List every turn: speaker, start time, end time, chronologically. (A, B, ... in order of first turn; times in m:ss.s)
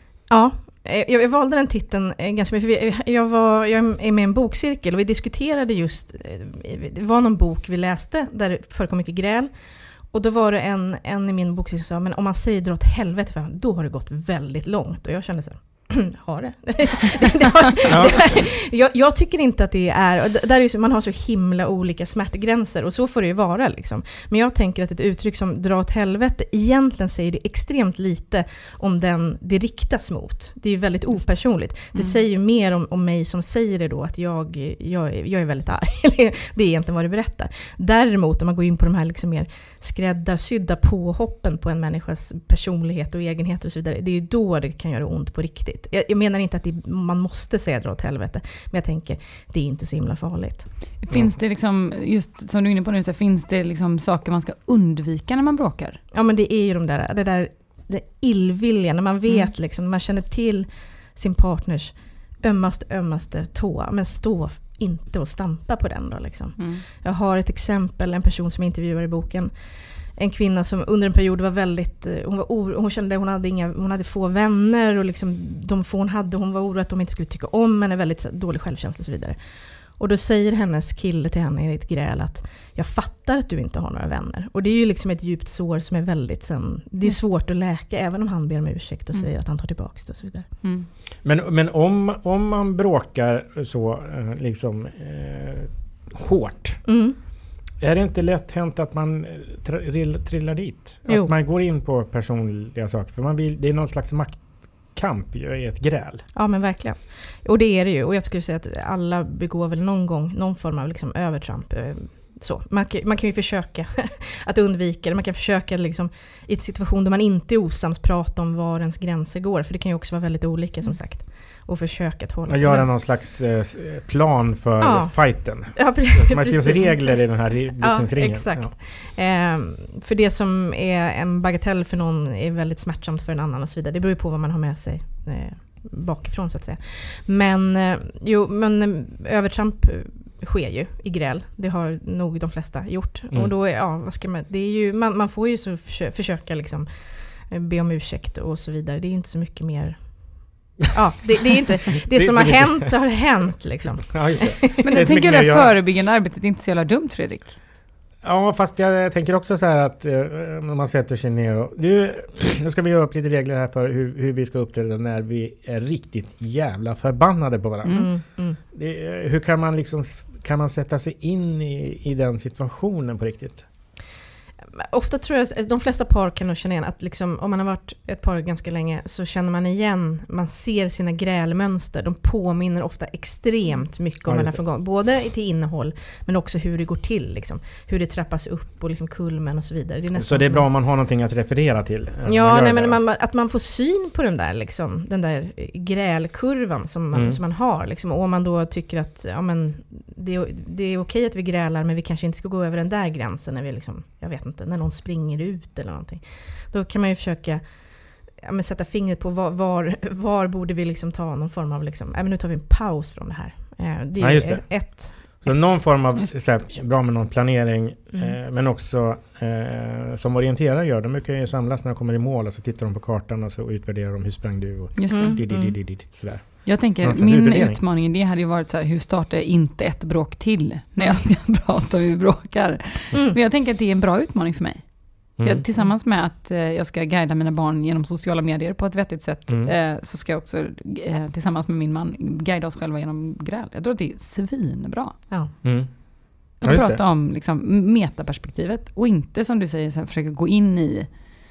0:00.3-0:50.7 A
0:51.0-0:56.0 B
0:56.1-1:30.5 A
1:06.6-1:06.8 B
1:30.6-1:30.9 B
1:31.2-1:36.8 C
1:36.8-1:37.2 A
1:37.8-1:46.2 C
1:41.1-1:41.3 A
1:46.3-2:02.9 A
2:02.5-2:08.7 C
2:04.8-2:34.7 A
2:32.1-2:33.3 C
2:34.0-2:35.7 C
2:34.8-2:37.6 B
2:38.2-2:48.2 C
2:47.8-2:48.1 B
2:47.9-2:48.6 A
2:48.7-2:53.7 C
2:54.8-3:10.7 A
3:04.2-3:04.6 C
3:10.1-3:13.0 C
3:12.2-3:35.9 A
3:17.1-3:17.4 C
3:34.2-3:47.8 C
3:45.0-3:45.4 B
3:45.1-3:45.8 A
3:46.6-4:05.2 B
3:53.1-3:53.4 A
3:55.4-3:55.6 C
4:05.6-4:07.0 C
4:06.6-4:11.2 B